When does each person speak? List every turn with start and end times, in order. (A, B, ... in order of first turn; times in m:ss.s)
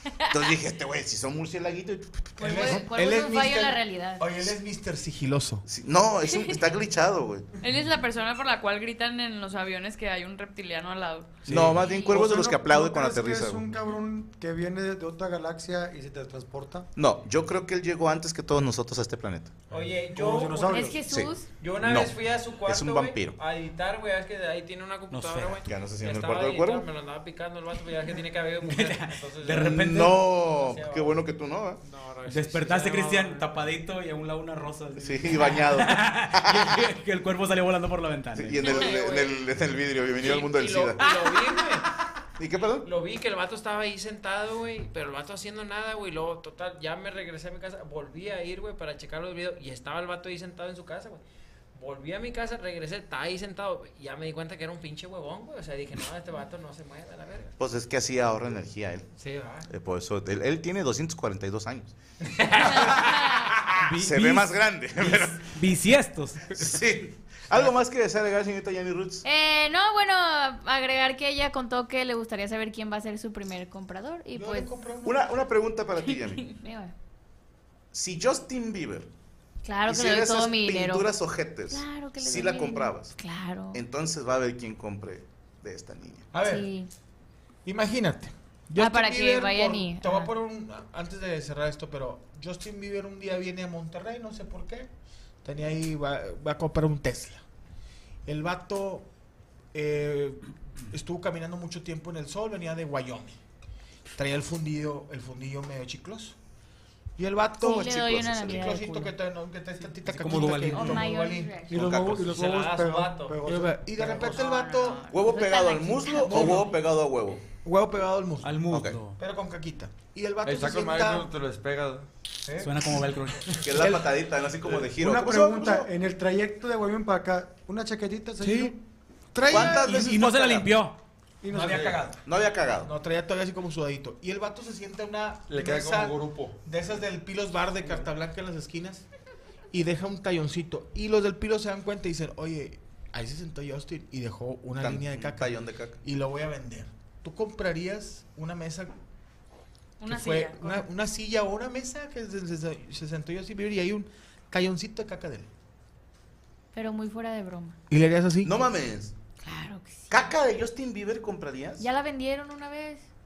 0:00.3-0:02.8 A
0:02.4-0:04.2 B
0:02.4-0:05.6 C
0:05.6-0:07.4 A
0:07.6-0:11.4 D
0:11.4-0:13.6 A
0:11.5-0:16.9 E
0:11.8-0:12.2 B
0:17.0-0:19.6 A
0:19.7-0:20.9 F
0:19.8-0:21.0 E
0:20.7-0:21.5 B
0:21.0-0:23.4 A
0:21.6-0:31.2 F
0:25.1-0:25.6 G
0:25.6-0:26.9 A
0:28.6-0:30.2 G
0:29.5-0:31.8 A
0:31.8-0:33.5 F
0:32.2-0:38.7 G
0:35.0-0:36.8 A
0:38.3-0:41.1 A
0:38.6-0:39.4 F
0:40.2-0:41.9 F
0:42.4-0:42.9 A
0:42.8-0:51.2 F
0:51.7-0:57.5 F
0:57.6-0:59.0 A
0:59.2-0:59.7 F
0:59.7-1:01.9 A
1:02.3-1:02.9 F
1:03.5-1:05.5 A
1:03.7-1:04.5 G
1:05.1-1:06.8 G
1:06.5-1:09.2 A
1:09.2-1:14.7 B
1:14.3-1:15.2 C
1:15.0-1:16.5 A
1:16.4-1:16.9 B
1:17.9-1:19.1 A
1:19.6-1:21.1 B
1:19.8-1:23.1 A
1:21.7-1:23.8 B
1:23.7-1:26.3 A
1:26.3-1:26.7 C
1:26.4-1:26.9 B
1:27.6-1:34.9 C
1:28.8-1:30.3 B
1:35.4-1:37.4 C
1:38.2-1:39.1 C
1:39.7-1:43.4 C
1:44.1-1:46.4 C
1:47.2-1:51.6 C
1:47.6-1:49.1 B
1:47.7-1:48.8 A
1:50.0-1:51.1 G
1:50.7-1:51.8 B
1:51.7-1:54.4 E
1:51.7-1:52.4 A
1:52.3-1:53.4 F
1:53.4-1:55.0 C
1:54.3-1:56.7 B
1:55.1-1:57.4 A
1:56.3-1:56.8 C
1:57.6-1:58.6 C
1:58.4-1:59.2 G
1:58.7-1:59.0 A
1:59.2-2:01.3 C
2:00.4-2:02.1 H
2:02.4-2:03.0 C
2:02.6-2:03.7 G
2:03.6-2:04.1 C
2:03.6-2:05.9 A
2:04.8-2:08.8 E
2:08.4-2:08.7 C
2:09.3-2:10.2 C
2:09.5-2:10.7 A
2:09.6-2:11.0 G
2:11.4-2:12.1 E
2:11.5-2:12.0 C
2:11.5-2:12.0 H
2:12.2-2:12.9 A
2:12.8-2:19.0 C
2:15.5-2:16.6 H
2:19.7-2:28.9 C
2:24.8-2:26.0 A
2:30.0-2:30.8 D
2:30.0-2:35.5 C
2:36.7-2:37.8 B
2:37.9-2:38.6 C
2:38.4-2:39.1 A
2:39.4-2:40.3 B
2:40.1-2:41.8 A
2:41.8-2:43.1 B